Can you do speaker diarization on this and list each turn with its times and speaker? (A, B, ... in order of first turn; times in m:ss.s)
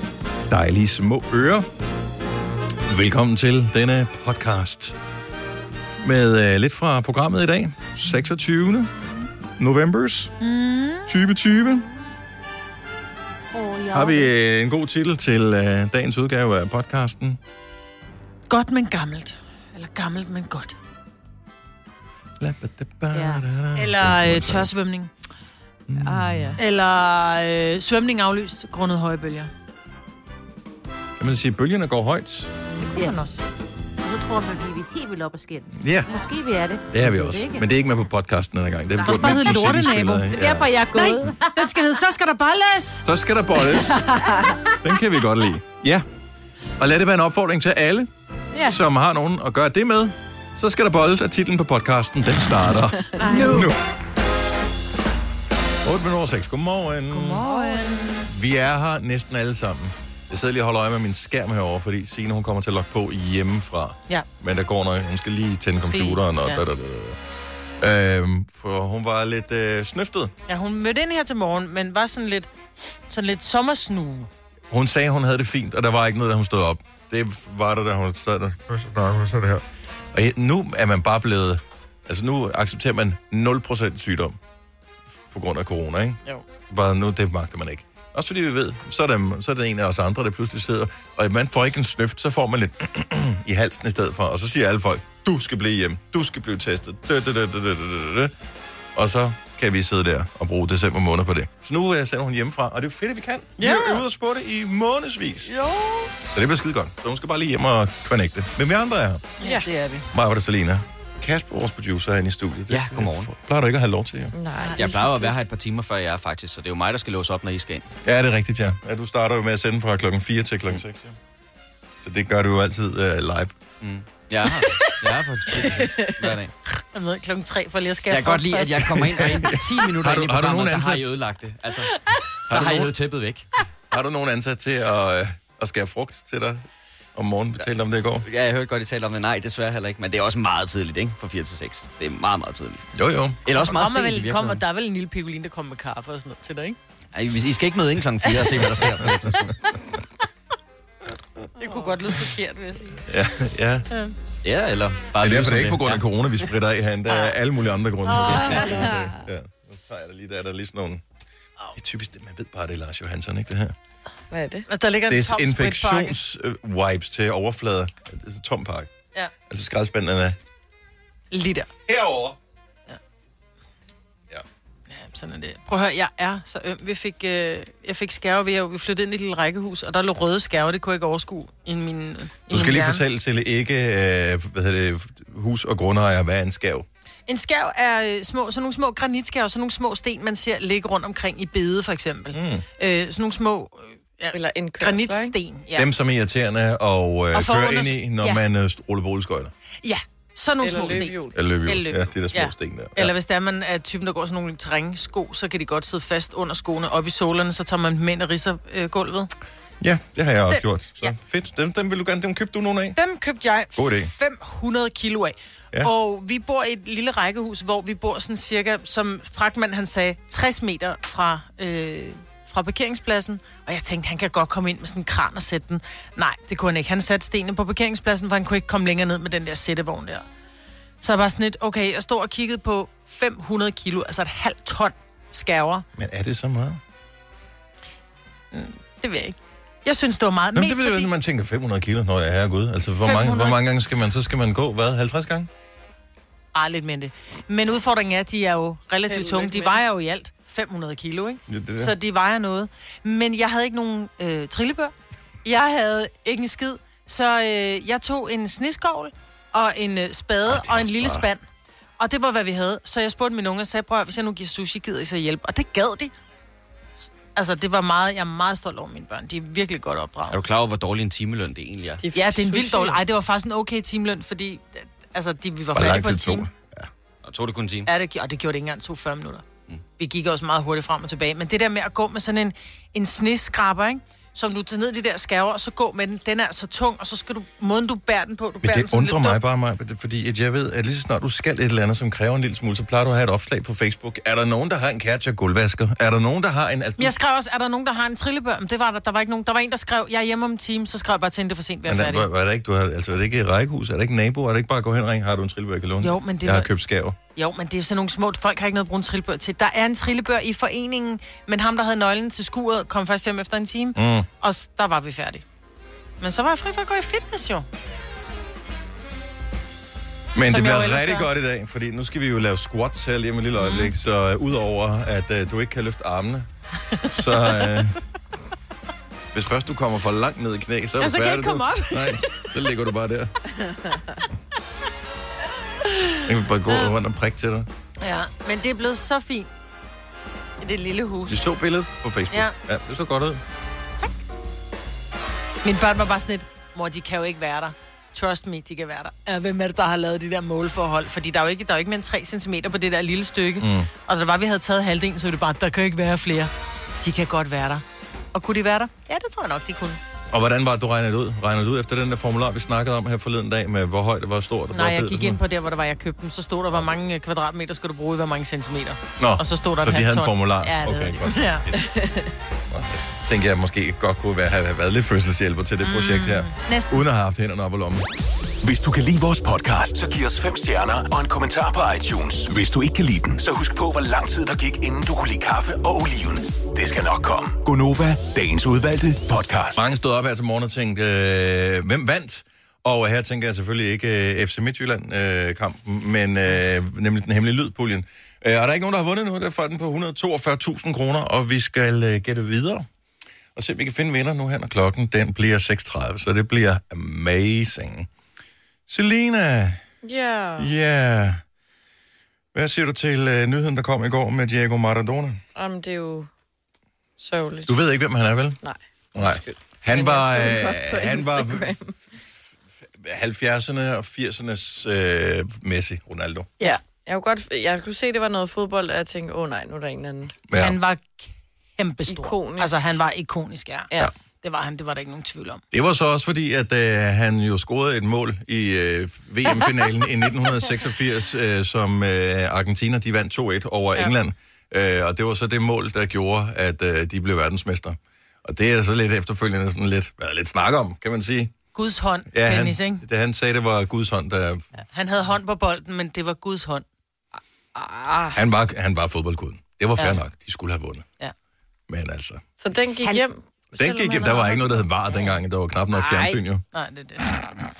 0:00.5-0:01.7 A
0:02.9-0:05.0 A
0:06.0-0:08.9 A
0:09.6-0:10.3 A
0:10.4-0:11.1 B
0:11.1-0:11.8 A
0:13.5-0:14.3 C
0:13.9-0:17.4 A
0:18.5-0:20.8 B
0:22.4-0:24.7 A
0:23.1-0:23.4 C
0:23.7-0:25.1 B
0:25.9-0:26.5 A
0:26.0-0:26.6 D
0:26.6-0:29.5 B
0:31.2-0:32.5 A
0:32.9-0:33.2 C
0:33.0-0:33.4 B
0:34.0-0:37.6 C
0:35.7-0:36.1 A
0:36.9-0:40.7 A
0:39.0-0:40.3 B
0:39.0-0:39.4 C
0:40.3-0:41.7 C
0:40.9-0:43.0 B
0:43.0-0:44.0 A
0:43.9-0:44.5 B
0:44.8-0:46.0 A
0:46.8-0:48.1 A
0:48.7-0:53.8 A
0:53.2-0:53.7 C
0:53.3-0:53.6 B
0:55.8-0:57.4 A
0:57.1-0:58.2 B
0:57.4-0:58.0 C
0:58.2-1:07.2 A
1:05.9-1:06.6 B
1:07.8-1:10.3 A
1:10.5-1:12.5 B
1:13.1-1:14.3 B
1:14.7-1:24.4 A
1:25.3-1:38.3 A
1:38.9-1:45.5 A
1:45.6-1:46.0 B
1:46.3-1:49.3 A
1:49.4-1:50.0 B
1:49.4-1:49.7 D
1:50.1-1:54.3 A
1:52.7-1:53.3 E
1:54.3-1:55.3 D
1:54.6-1:55.2 B
1:54.7-1:57.8 E
1:58.0-2:01.2 A
2:02.0-2:03.6 A
2:03.8-2:06.5 E
2:05.6-2:06.3 D
2:06.9-2:09.3 B
2:08.1-2:13.5 E
2:08.8-2:11.0 A
2:12.5-2:12.9 A
2:13.9-2:18.3 A
2:18.2-2:22.9 E
2:22.9-2:23.4 A
2:23.4-2:24.6 E
2:23.6-2:26.8 B
2:27.1-2:29.5 E
2:28.6-2:29.5 A
2:31.6-2:33.0 B
2:33.1-2:33.9 A
2:34.4-2:36.0 E
2:35.2-2:41.0 A
2:37.1-2:37.3 B
2:38.0-2:38.9 B
2:38.7-2:39.1 D
2:41.7-2:43.7 A
2:44.3-2:44.7 D
2:44.7-2:46.2 B
2:45.1-2:48.9 A
2:49.5-2:50.4 A
2:51.3-2:51.7 B
2:51.9-2:52.4 A
2:54.9-3:03.0 B
3:02.5-3:06.9 A
3:07.3-3:15.9 B
3:12.3-3:12.6 A
3:14.3-3:15.3 D
3:15.7-3:19.5 A
3:17.3-3:18.4 B
3:19.8-3:29.3 B
3:20.6-3:21.4 D
3:21.3-3:23.1 A
3:29.8-3:33.0 A
3:30.5-3:31.1 B
3:32.9-3:50.2 B
3:33.8-3:34.1 A
3:51.0-3:55.8 B
3:55.9-3:56.8 A
3:58.5-4:01.1 B
4:00.5-4:05.5 A
4:03.0-4:03.6 B
4:06.5-4:14.9 B
4:09.1-4:09.8 D
4:11.5-4:11.9 A
4:15.4-4:21.5 B
4:20.5-4:21.2 A
4:22.0-4:26.1 B
4:27.0-4:30.4 B
4:30.3-4:32.0 E
4:32.0-4:33.0 D
4:32.1-4:36.5 B
4:35.7-4:36.9 A
4:37.2-4:37.9 E
4:37.8-4:39.4 B
4:40.0-4:49.4 B
4:48.6-4:57.1 A
4:57.0-5:02.3 B
5:01.8-5:07.2 A
5:06.0-5:06.7 B
5:07.3-5:15.4 B
5:13.9-5:14.3 A
5:16.2-5:17.6 B
5:20.3-5:26.5 A
5:20.5-5:21.3 B
5:23.6-5:23.9 B
5:27.1-5:28.0 A
5:29.3-5:33.4 A
5:31.0-5:32.5 B
5:36.2-5:37.7 A
5:38.0-5:39.5 B
5:40.6-5:41.4 B
5:41.3-5:43.4 A
5:45.6-6:00.0 B
5:53.6-5:53.9 A
6:00.3-6:05.4 A
6:04.7-6:11.7 B
6:09.2-6:11.9 A
6:11.7-6:12.3 D
6:12.7-6:18.0 A
6:15.8-6:17.0 B
6:18.6-6:29.9 F
6:29.8-6:42.8 A
6:43.6-6:48.1 A
6:48.9-6:49.8 A
6:50.0-6:50.7 D
6:50.6-6:51.4 A
6:52.5-6:55.4 A
6:55.5-6:56.3 D
6:57.2-6:57.8 D
6:57.7-6:58.6 A
6:58.6-7:01.9 D
6:59.1-7:01.8 A
7:02.9-7:06.5 A
7:06.6-7:10.4 D
7:10.5-7:10.8 A
7:10.5-7:13.9 B
7:12.1-7:12.8 D
7:14.4-7:15.6 B
7:15.7-7:31.5 A
7:31.7-7:33.0 B
7:32.3-7:34.6 A
7:34.8-7:36.8 B
7:37.7-7:38.4 D
7:38.3-7:41.0 A
7:41.9-7:42.4 A
7:42.6-7:44.8 D
7:43.7-7:46.6 A
7:46.0-7:47.3 B